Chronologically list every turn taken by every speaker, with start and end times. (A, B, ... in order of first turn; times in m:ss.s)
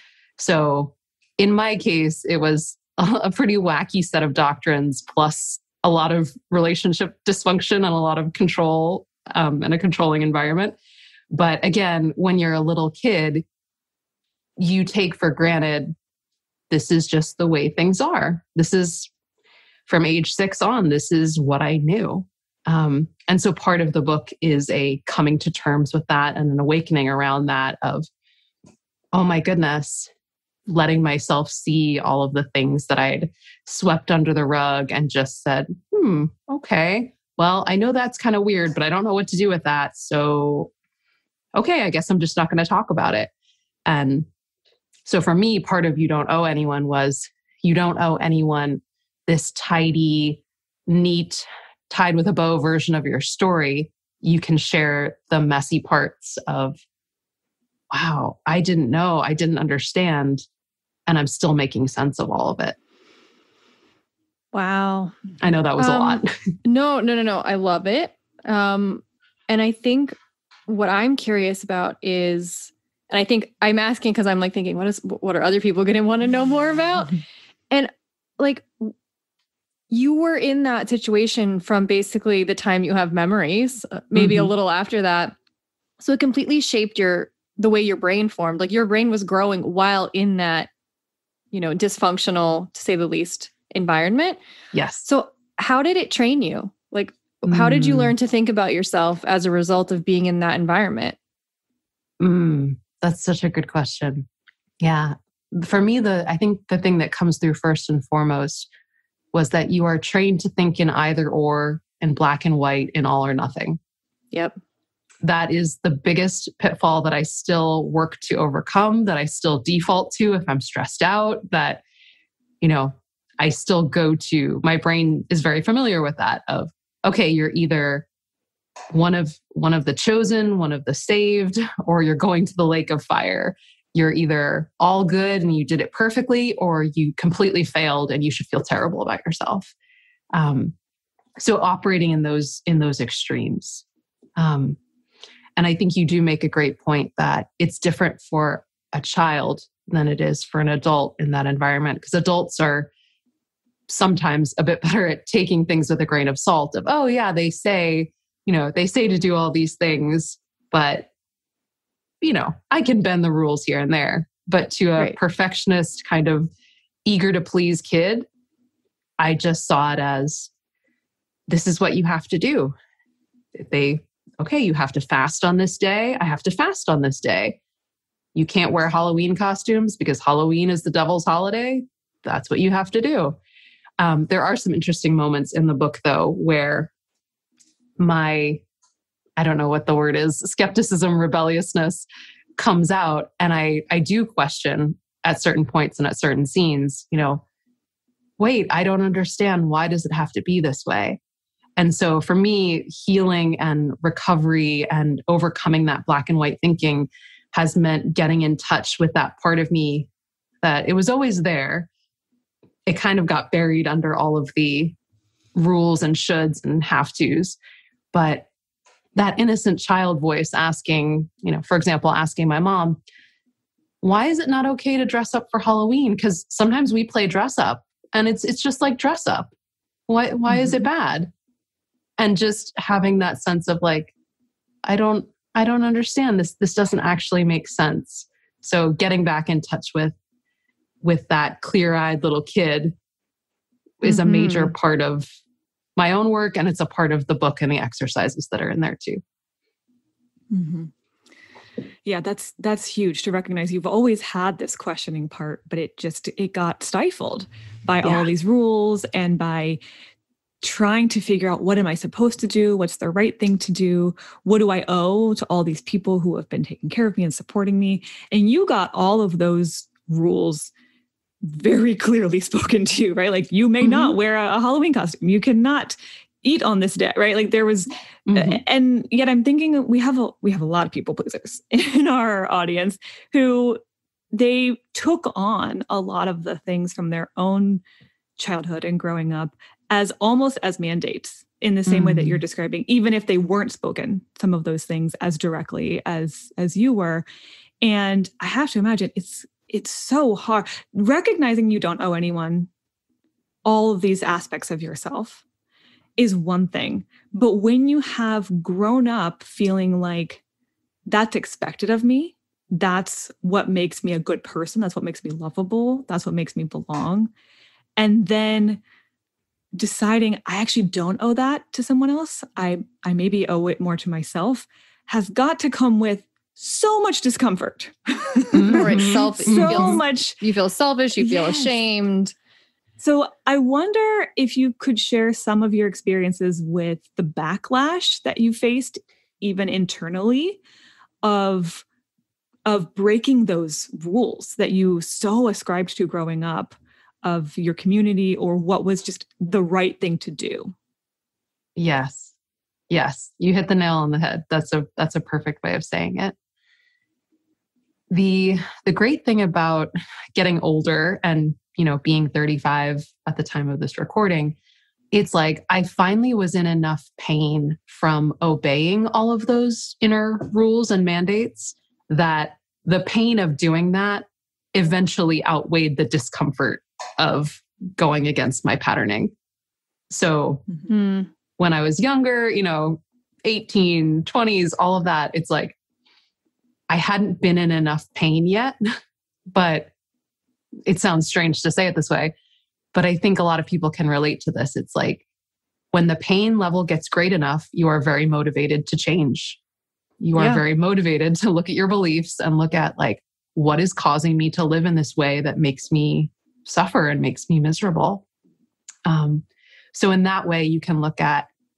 0:00.4-0:10.8 A
0:11.3-0:13.4 A
0:14.6-0:15.9 A
0:16.7-0:19.1 A
0:19.9-0:28.1 A
0:29.1-0:30.1 A
0:30.7-0:40.7 A
0:41.6-0:43.3 A
0:43.9-0:44.3 A
0:45.0-0:56.8 A
0:57.9-1:00.4 A
1:01.1-1:02.8 A
1:04.5-1:05.1 B
1:05.4-1:06.3 A
1:05.8-1:10.2 B
1:10.7-1:17.2 B
1:17.7-1:18.9 B
1:19.9-1:25.4 B
1:24.1-1:24.5 A
1:26.0-1:30.7 B
1:31.5-1:34.4 B
1:34.7-1:35.1 A
1:35.0-1:41.2 B
1:37.5-1:38.1 A
1:42.2-1:44.2 A
1:44.8-1:48.7 A
1:49.3-1:53.8 A
1:55.2-2:01.8 A
2:02.6-2:08.0 A
2:08.9-2:19.7 A
2:20.3-2:20.7 A
2:21.4-2:23.8 A
2:24.4-2:24.8 A
2:25.6-2:32.9 A
2:33.9-2:41.1 A
2:42.2-2:46.5 A
2:47.0-2:48.2 A
2:49.2-2:50.5 A
2:51.5-2:52.7 A
2:53.5-2:57.6 A
2:58.3-3:03.4 A
3:04.0-3:06.9 A
3:08.0-3:08.6 A
3:09.4-3:12.0 A
3:12.6-3:17.4 A
3:18.4-3:21.2 A
3:21.8-3:30.1 A
3:30.6-3:31.9 A
3:32.8-3:35.0 A
3:35.5-3:37.6 A
3:38.1-3:38.5 A
3:39.1-3:43.0 A
3:44.0-3:49.5 A
3:50.1-3:51.3 A
3:52.2-3:54.1 A
3:54.8-4:00.2 A
4:01.0-4:03.0 A
4:04.0-4:05.3 A
4:04.0-4:04.7 B
4:06.0-4:09.2 A
4:10.5-4:10.9 C
4:12.0-4:19.8 C
4:20.6-4:30.7 C
4:31.4-4:43.8 C
4:33.8-4:34.2 A
4:38.3-4:38.6 A
4:44.3-4:47.8 C
4:48.4-4:57.2 C
4:51.9-4:52.4 A
4:57.8-5:02.7 C
5:03.6-5:05.4 C
5:06.2-5:10.4 C
5:11.1-5:17.3 C
5:18.0-5:18.8 C
5:19.8-5:30.4 C
5:28.5-5:30.0 A
5:28.6-5:32.3 B
5:31.2-5:31.8 C
5:33.0-5:40.6 C
5:41.2-5:41.8 C
5:42.6-5:50.7 C
5:51.8-5:52.3 A
5:52.9-5:56.3 A
5:58.1-6:04.6 A
6:05.1-6:19.3 A
6:20.1-6:20.6 A
6:20.9-6:21.3 B
6:21.6-6:25.8 A
6:26.9-6:28.8 A
6:29.5-6:29.9 A
6:30.8-6:32.3 A
6:32.9-6:35.2 A
6:35.9-6:39.6 A
6:40.2-6:48.2 A
6:40.3-6:40.6 B
6:49.0-6:51.5 A